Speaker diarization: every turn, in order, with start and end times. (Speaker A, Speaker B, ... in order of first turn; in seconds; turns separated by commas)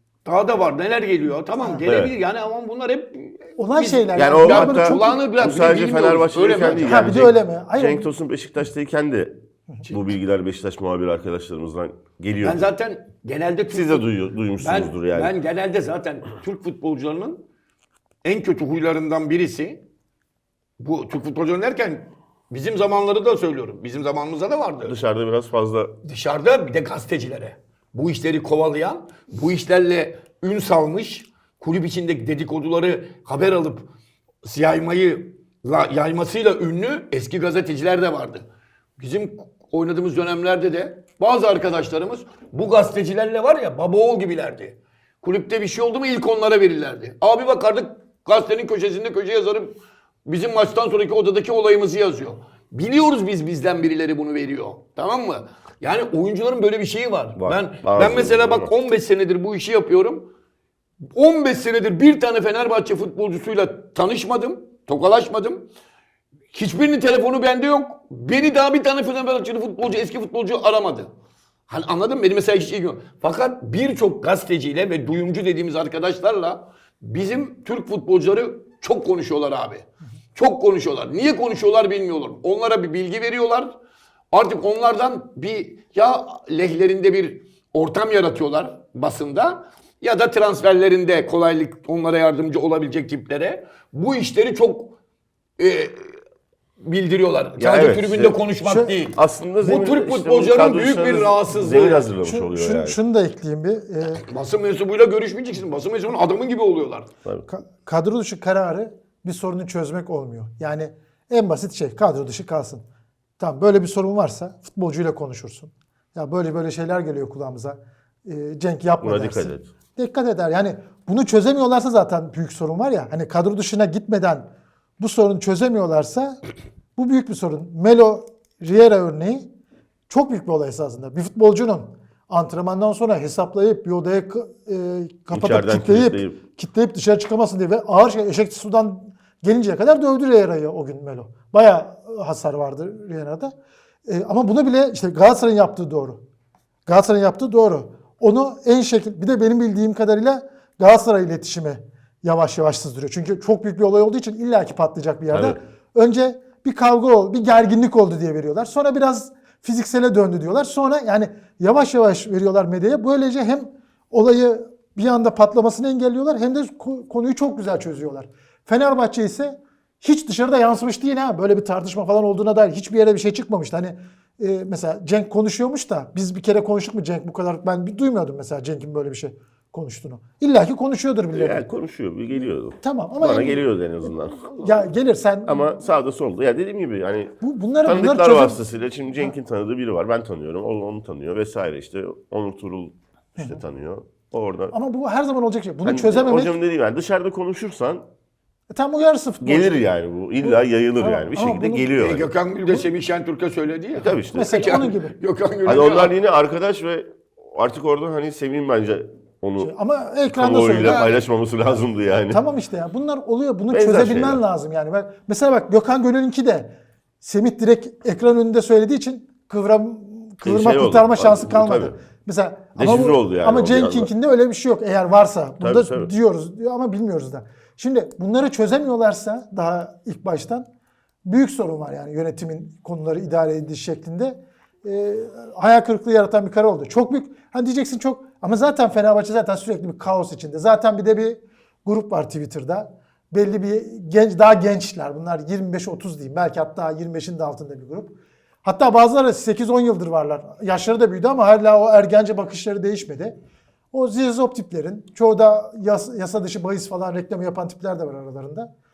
Speaker A: 0.2-7.2, Speaker B: 1.9-2.1, Speaker C: 3.6-5.2, Speaker B: 4.1-12.7, Speaker C: 6.8-8.1, Speaker A: 12.4-17.5, Speaker B: 13.7-15.3, Speaker A: 18.2-19.8, Speaker A: 20.8-25.0, Speaker B: 24.9-25.9, Speaker A: 26.0-33.9, Speaker A: 34.4-60.3, Speaker B: 57.4-58.7, Speaker A: 61.1-65.7, Speaker A: 66.5-71.1, Speaker A: 71.7-83.8, Speaker A: 84.3-95.0, Speaker A: 95.6-96.2, Speaker A: 96.8-102.1, Speaker B: 97.6-98.4, Speaker C: 98.6-98.9, Speaker B: 99.1-103.0, Speaker C: 102.2-104.2, Speaker A: 104.2-107.1, Speaker C: 107.5-112.8, Speaker C: 113.4-126.4, Speaker B: 119.0-119.7, Speaker C: 127.0-129.5, Speaker C: 130.1-143.5, Speaker B: 135.3-136.4, Speaker C: 144.1-146.2, Speaker C: 146.9-181.7, Speaker B: 155.3-155.6, Speaker B: 181.3-184.8, Speaker C: 182.8-185.7, Speaker B: 185.4-194.7, Speaker C: 187.4-188.6, Speaker C: 194.7-196.5, Speaker B: 195.8-198.1, Speaker C: 198.7-199.9, Speaker B: 199.4-202.3, Speaker C: 200.4-202.0, Speaker A: 202.0-206.1, Speaker B: 204.0-204.7, Speaker C: 204.2-205.2, Speaker B: 205.7-209.7, Speaker C: 209.6-211.1, Speaker B: 210.3-212.4, Speaker A: 210.8-211.2, Speaker C: 212.3-230.7, Speaker B: 213.7-214.4, Speaker B: 220.4-222.0, Speaker B: 222.8-224.1, Speaker B: 225.6-226.1, Speaker C: 231.2-253.4, Speaker C: 253.9-258.7